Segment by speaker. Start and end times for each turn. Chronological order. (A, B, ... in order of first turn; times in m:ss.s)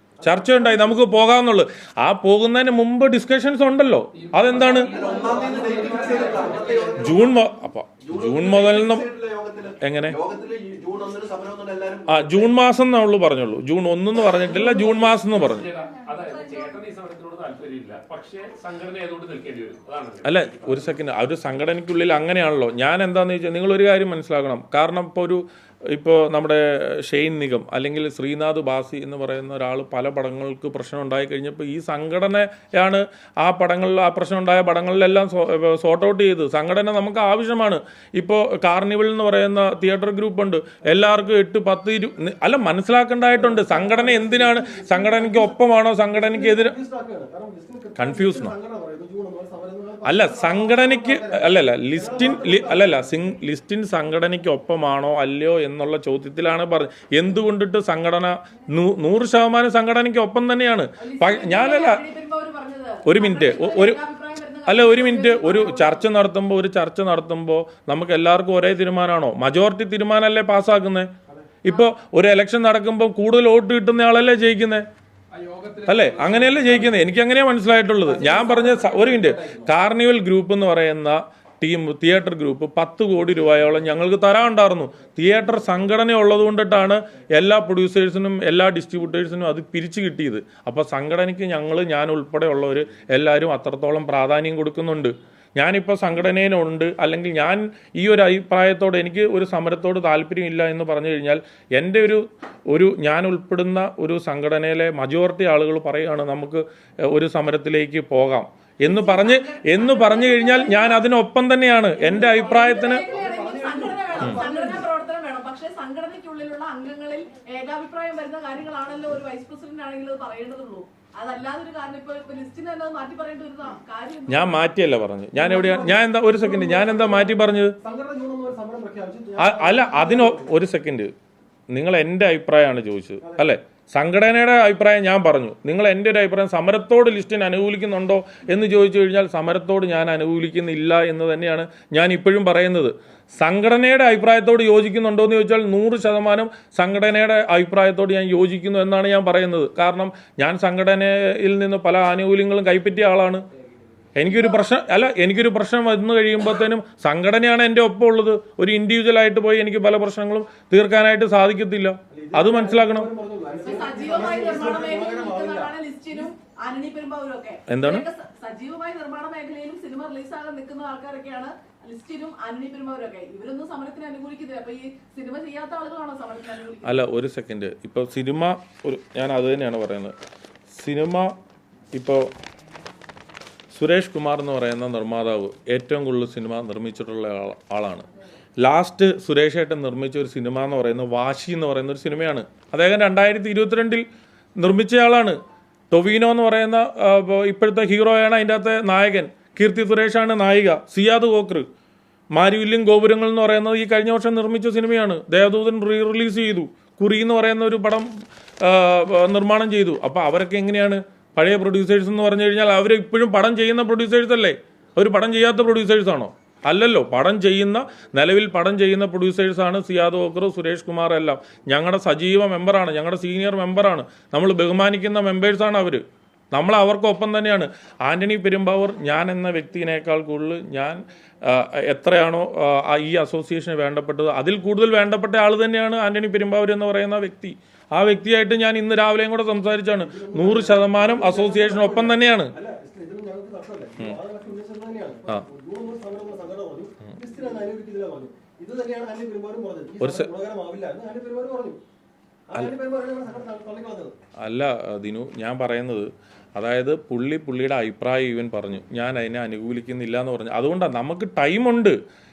0:00.2-0:01.0 A
0:00.2-0:04.9 B
0:04.2-0:07.0 C
0:04.8-0:07.4 D
0:04.9-0:06.9 A
0:05.9-0:06.5 E
0:07.0-0:09.1 B
0:08.0-0:12.6 D
0:09.8-0:10.2 B
0:12.1-0:15.7 B
0:14.5-0:21.0 C
0:20.2-0:46.8 B
0:43.3-0:53.1 A
0:48.0-0:48.5 B
0:50.0-1:02.0 B
1:01.0-1:06.1 E
1:03.1-1:04.0 B
1:04.7-1:11.1 B
1:11.6-1:14.9 B
1:15.3-1:17.0 C
1:15.8-1:53.0 B
1:18.0-1:19.7 A
1:48.8-1:51.1 E
1:52.0-1:54.9 A
1:52.3-2:04.7 E
2:04.3-2:07.7 B
2:05.4-2:10.6 A
2:09.4-2:11.1 B
2:11.7-2:33.4 B
2:13.2-2:13.5 A
2:34.2-2:43.1 B
2:42.1-2:46.3 A
2:43.6-2:57.0 E
2:47.7-2:48.0 B
2:56.8-3:00.2 B
3:00.7-3:01.3 B
3:01.9-3:02.3 B
3:03.7-3:08.1 B
3:08.6-3:14.0 B
3:14.6-3:15.4 B
3:15.9-3:21.7 B
3:22.4-4:02.5 B
3:59.8-4:11.8 A
4:10.0-4:10.3 B
4:12.5-4:14.2 A
4:14.4-4:22.0 B